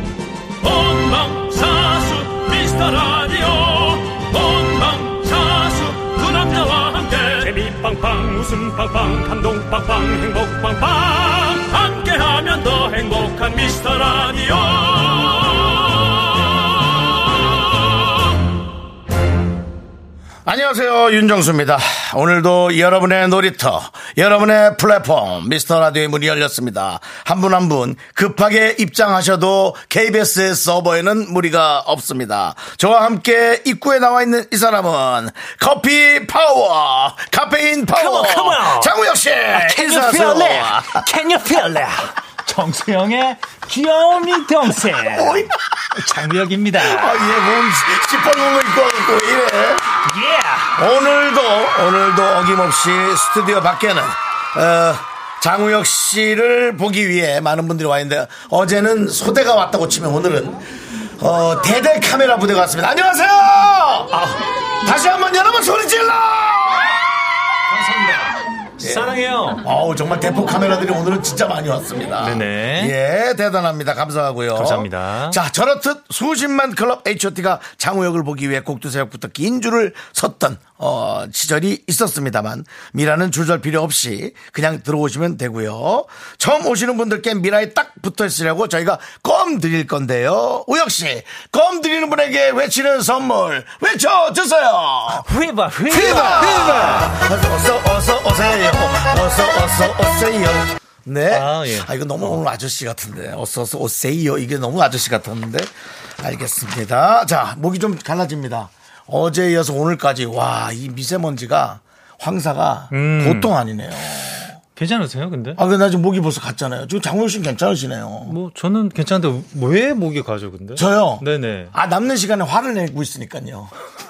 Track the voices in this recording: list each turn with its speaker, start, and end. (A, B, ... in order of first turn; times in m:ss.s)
0:00.6-0:15.6 A
0:20.4-0:41.0 B
0:37.9-0:38.9 C
0:39.5-0:47.4 C
0:45.1-0:45.5 B
0:46.8-0:49.9 B
0:50.0-0:50.8 C
0:50.8-1:00.6 B
1:01.2-1:07.1 B
1:07.7-1:09.6 C
1:08.8-1:35.3 B
1:12.2-1:12.9 C
1:14.5-1:15.4 C
1:35.2-1:37.1 C
1:35.9-1:54.6 B
1:41.3-1:42.4 C
1:52.9-1:53.5 C
1:54.8-1:55.6 C
1:55.6-1:58.4 B
1:58.2-2:01.7 C
2:00.8-2:03.7 B